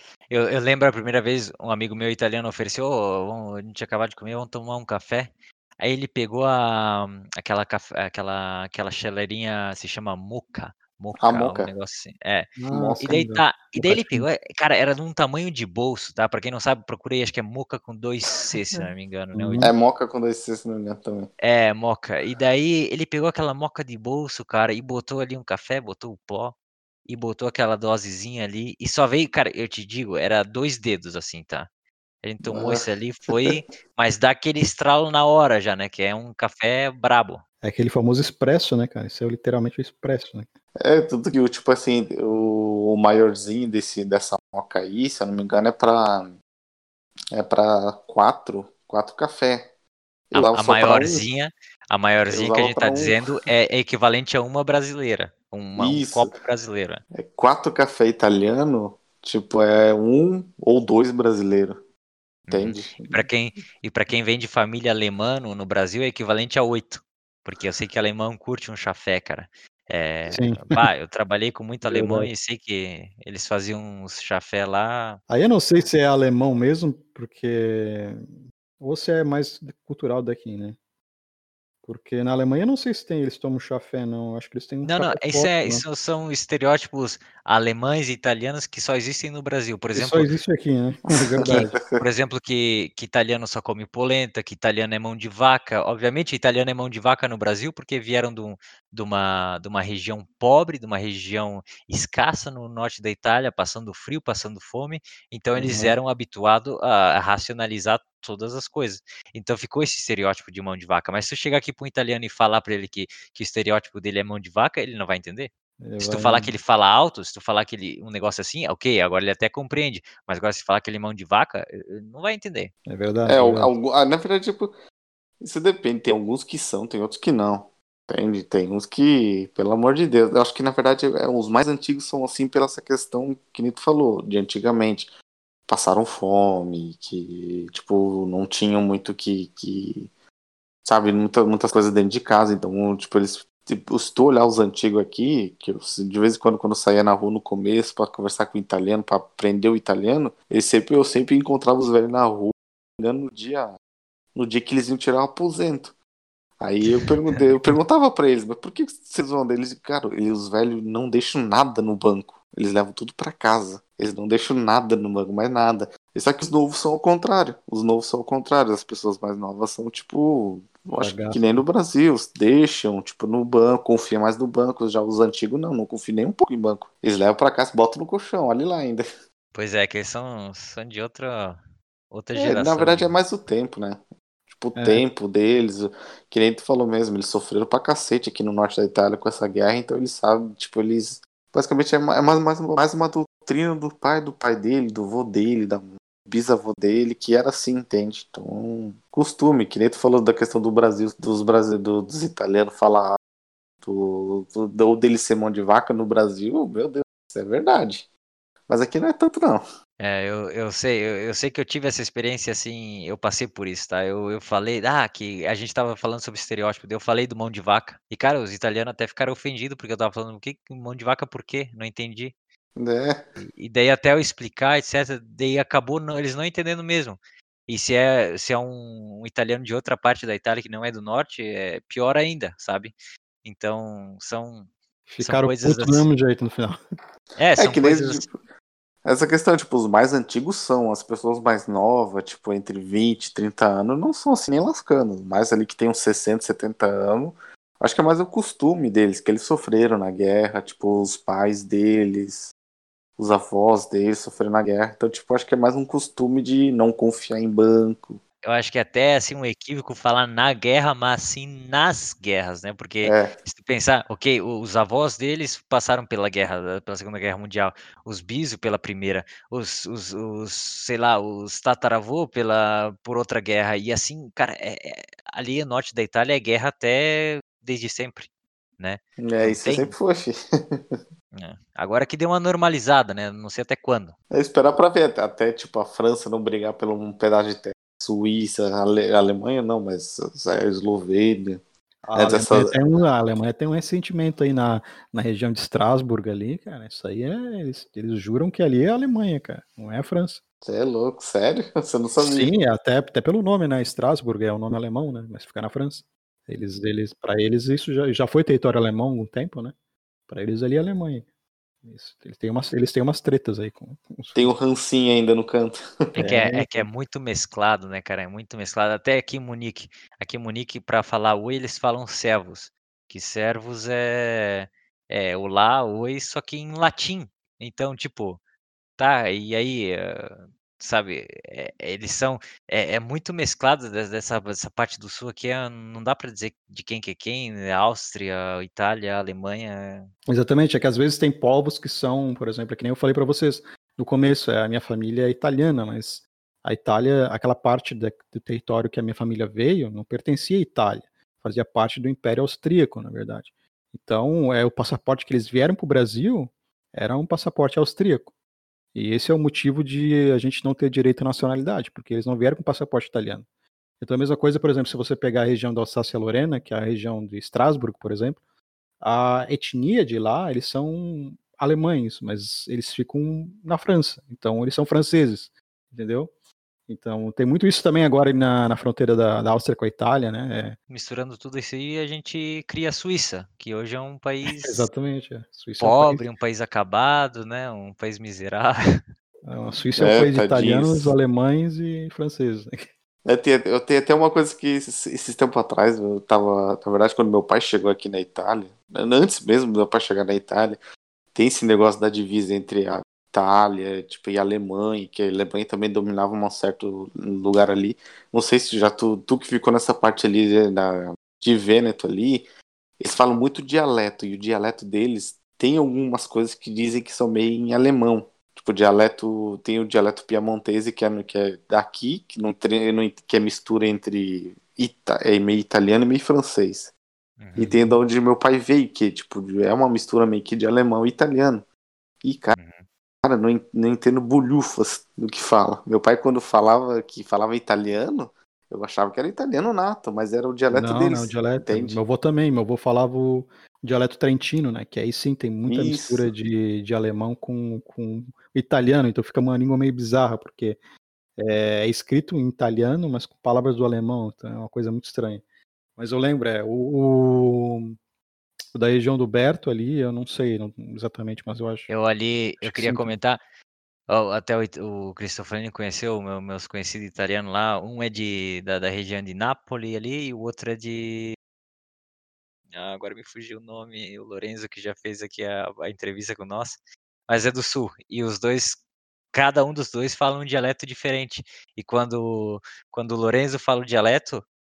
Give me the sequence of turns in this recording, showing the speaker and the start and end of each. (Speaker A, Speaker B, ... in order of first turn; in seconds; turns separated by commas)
Speaker A: 0.3-19.7, Speaker B: 11.2-11.7, Speaker C: 12.6-14.3, Speaker B: 12.7-13.1, Speaker C: 19.3-19.7, Speaker B: 19.6-21.3, Speaker A: 21.4-31.7, Speaker A: 32.2-37.4, Speaker B: 32.4-33.5, Speaker C: 37.6-40.5, Speaker B: 40.8-46.4, Speaker B: 47.3-49.7, Speaker B: 50.3-51.2, Speaker A: 50.3-57.0, Speaker B: 52.3-53.2, Speaker B: 55.8-56.3, Speaker B: 57.1-61.8, Speaker A: 62.5-75.2, Speaker B: 62.5-63.3, Speaker C: 70.3-70.9, Speaker C: 71.8-72.3, Speaker C: 75.3-78.3, Speaker C: 78.8-80.8, Speaker C: 81.8-85.8, Speaker A: 84.8-90.3, Speaker C: 89.9-91.8, Speaker B: 91.1-92.0, Speaker A: 91.4-122.7, Speaker C: 105.6-106.0, Speaker C: 115.8-116.5, Speaker C: 122.9-123.7, Speaker B: 123.2-124.7, Speaker B: 125.4-135.1, Speaker B: 135.7-140.1, Speaker B: 140.8-153.8, Speaker B: 154.3-155.9, Speaker B: 156.6-179.0, Speaker C: 171.0-171.6, Speaker A: 179.5-181.6, Speaker A: 182.1-183.1, Speaker B: 182.3-203.2, Speaker C: 184.8-185.0, Speaker B: 203.8-208.1, Speaker B: 208.7-209.6, Speaker A: 210.0-222.3, Speaker B: 222.8-223.2, Speaker A: 223.4-234.7, Speaker C: 235.1-236.8, Speaker A: 235.2-236.1, Speaker A: 237.3-238.2, Speaker B: 237.6-238.4, Speaker B: 239.0-252.5, Speaker B: 253.2-258.2, Speaker A: 258.4-279.9, Speaker B: 263.0-263.3, Speaker B: 279.2-280.3, Speaker A: 281.3-284.1, Speaker B: 284.3-291.6, Speaker C: 292.0-300.4, Speaker B: 292.1-292.8, Speaker B: 300.6-302.5, Speaker C: 302.2-309.7, Speaker C: 310.3-311.2, Speaker C: 311.8-314.6, Speaker B: 314.3-315.8, Speaker A: 316.1-328.4, Speaker C: 316.2-316.9, Speaker A: 329.0-340.1, Speaker C: 340.3-358.3, Speaker C: 358.9-363.4, Speaker C: 364.0-368.4, Speaker C: 369.0-376.3, Speaker C: 376.9-380.8, Speaker A: 380.9-384.9, Speaker C: 384.5-386.2, Speaker A: 385.8-389.0, Speaker C: 389.4-392.8, Speaker B: 389.9-391.1, Speaker B: 393.2-400.8, Speaker B: 401.3-412.5, Speaker B: 413.0-426.9, Speaker A: 427.4-427.8, Speaker B: 427.6-431.6, Speaker B: 432.2-432.6, Speaker A: 432.5-432.8, Speaker B: 433.2-442.0, Speaker C: 440.7-450.8, Speaker B: 445.6-446.3, Speaker C: 451.4-455.4, Speaker C: 456.0-458.0, Speaker C: 458.7-461.9, Speaker A: 461.9-463.4, Speaker C: 462.6-463.1, Speaker A: 464.1-471.4, Speaker A: 472.7-478.8, Speaker A: 479.3-484.4